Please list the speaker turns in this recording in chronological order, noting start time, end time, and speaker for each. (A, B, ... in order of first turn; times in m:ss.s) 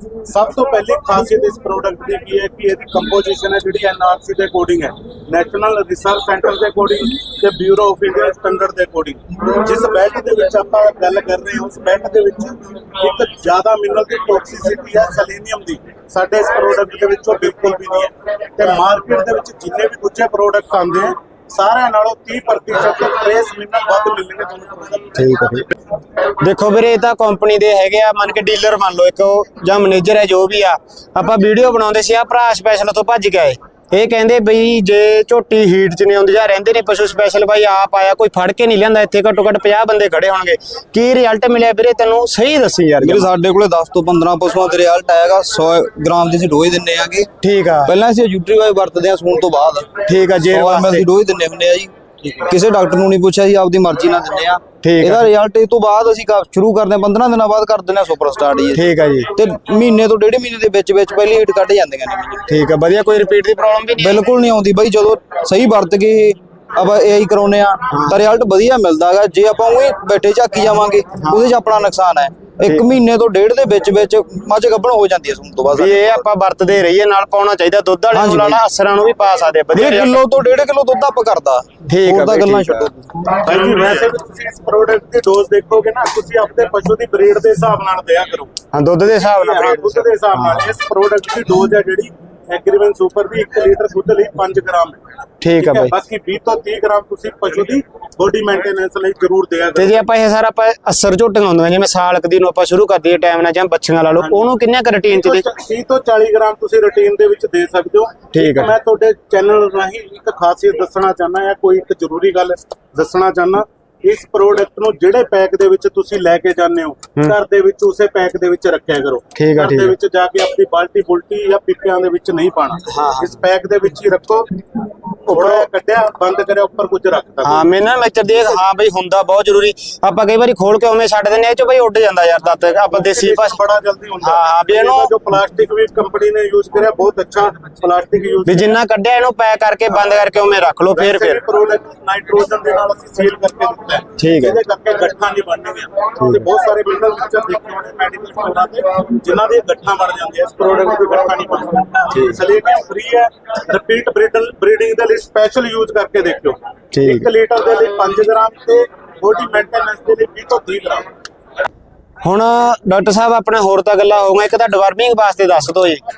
0:00.3-0:25.1 A
0:25.1-0:25.7 B
0:26.4-0:43.3 B
0:43.0-0:47.3 C
0:47.4-0:47.9 B
0:47.8-0:58.8 C
0:50.0-0:51.1 B
0:54.8-0:55.3 B
0:58.7-0:59.3 B
0:59.3-1:02.4 C
1:02.4-1:04.2 B
1:04.0-1:16.1 C
1:07.9-1:08.2 B
1:11.2-1:11.4 B
1:15.7-1:20.2 B
1:18.1-1:18.6 C
1:19.7-1:23.4 C
1:21.9-1:22.9 B
1:23.4-1:28.5 A
1:28.7-1:30.7 B
1:29.2-1:35.0 A
1:35.4-1:35.9 B
1:35.6-1:40.0 A
1:39.8-1:45.4 B
1:44.2-1:44.4 A
1:45.1-2:04.5 A
1:48.3-1:48.7 B
1:59.3-1:59.9 B
2:02.9-2:03.4 B
2:05.3-2:05.6 B
2:05.3-2:07.7 A
2:07.4-2:13.6 B
2:12.9-2:18.7 A
2:14.2-2:15.1 B
2:18.4-2:21.4 B
2:20.9-2:41.0 A
2:24.2-2:24.6 B
2:32.1-2:32.4 B
2:36.9-2:37.3 B
2:42.2-2:46.0 B